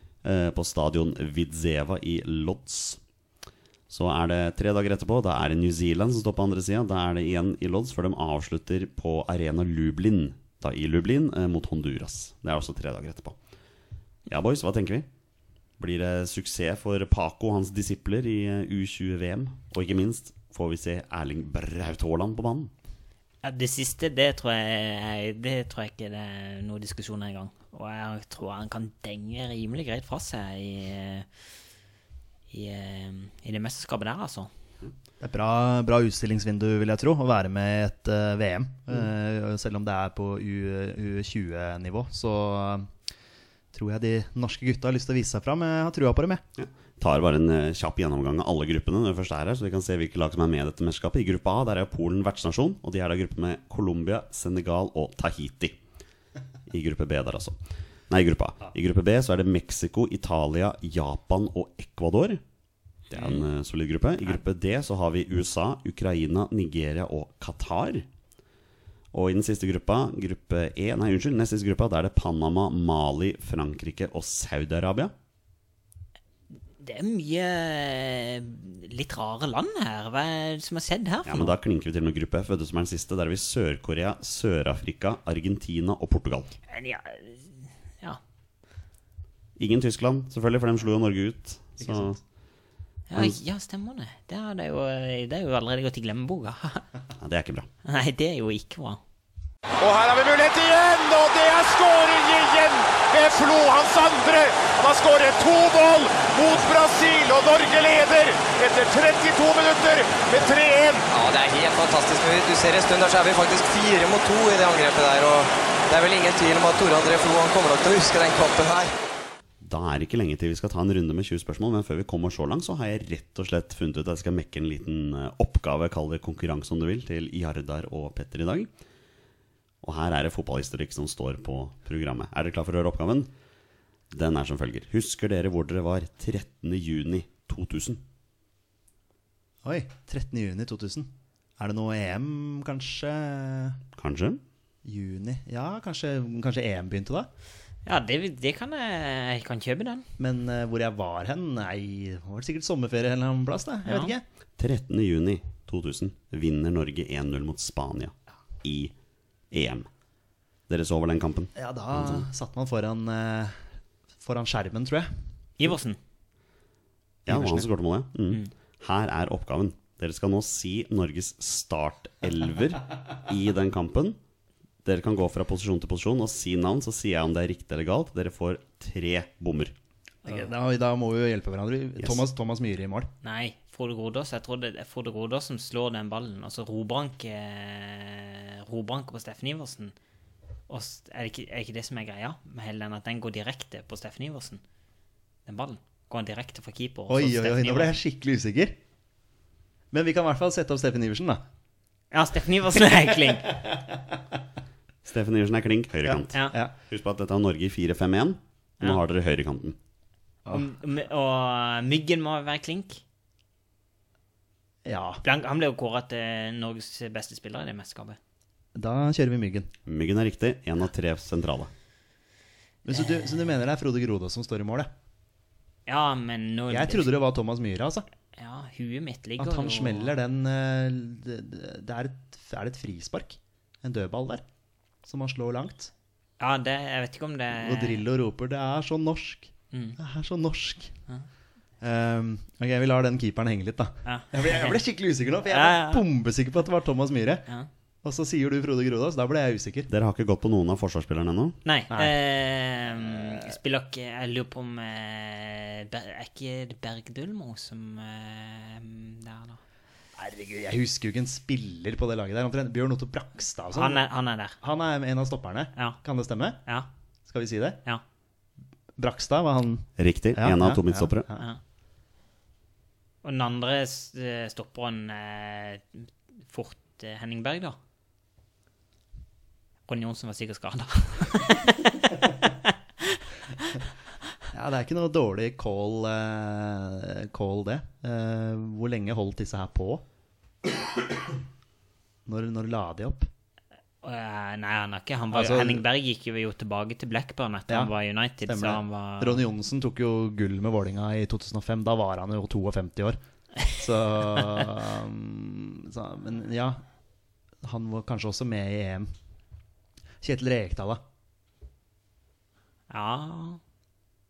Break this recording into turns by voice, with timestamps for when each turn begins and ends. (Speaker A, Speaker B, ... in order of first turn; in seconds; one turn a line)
Speaker A: 0.2-3.0
Speaker A: 3.9-13.4
Speaker A: 14.3-15.1
Speaker A: 15.8-22.7
Speaker B: 23.4-31.3
Speaker B: 32.5-34.5
Speaker C: 35.2-42.9
Speaker C: 43.7-46.4
Speaker A: 46.6-55.8
Speaker A: 56.7-62.4
Speaker A: 63.1-68.1
Speaker A: 69.1-75.1
Speaker B: 76.8-81.5
Speaker A: 81.2-86.5
Speaker B: 86.7-88.2
Speaker A: 89.6-92.2
Speaker C: 91.8-92.2
Speaker B: 93.1-96.8
Speaker A: 97.2-97.7
Speaker B: 97.8-99.0
Speaker D: 99.8-111.0
Speaker E: 111.1-118.9
Speaker A: 119.6-128.7
Speaker A: 129.8-133.3
Speaker A: 134.1-138.0
Speaker C: 139.6-143.8
Speaker A: 143.9-144.4
Speaker C: 144.8-147.3
Speaker B: 147.8-150.1
Speaker C: 150.2-154.2
Speaker B: 153.8-154.1
Speaker A: 154.6-158.9
Speaker A: 159.5-159.9
Speaker A: 160.7-162.3
Speaker C: 161.5-163.6
Speaker C: 164.2-165.2
Speaker B: 165.6-166.0
Speaker A: 167.2-174.2
Speaker C: 167.3-167.7
Speaker A: 174.8-179.7
Speaker C: 180.2-183.1
Speaker B: 183.2-189.9
Speaker B: 190.7-194.6
Speaker B: 195.4-197.9
Speaker C: 197.1-198.8
Speaker C: 199.9-201.4
Speaker B: 202.1-203.6
Speaker A: 205.0-209.8
Speaker C: 206.1-206.7
Speaker B: 210.5-213.0
Speaker C: 214.8-215.2
Speaker B: 215.2-218.2
Speaker C: 218.7-219.7
Speaker A: 219.8-221.7
Speaker C: 222.8-224.9
Speaker B: 225.8-227.1
Speaker C: 226.7-228.1
Speaker B: 228.3-230.1
Speaker C: 229.4-234.4
Speaker C: 235.0-235.9
Speaker B: 236.4-238.0
Speaker C: 237.5-240.9
Speaker B: 239.7-240.0
Speaker C: 241.8-247.4
Speaker B: 244.0-244.8
Speaker B: 245.5-246.1
Speaker C: 248.0-249.9
Speaker A: 249.9-251.6
Speaker B: 251.6-259.6
Speaker C: 260.2-264.0
Speaker B: 263.7-264.6
Speaker C: 264.6-266.6
Speaker C: 267.3-267.8
Speaker C: 269.0-271.5
Speaker A: 270.0-271.3
Speaker B: 273.2-277.8
Speaker B: 279.9-282.4
Speaker C: 284.5-290.0
Speaker C: 292.2-293.3
Speaker B: 294.0-299.4
Speaker C: 295.3-295.8
Speaker C: 298.4-306.8
Speaker C: 307.6-309.1
Speaker C: 310.2-311.0
Speaker B: 312.9-313.6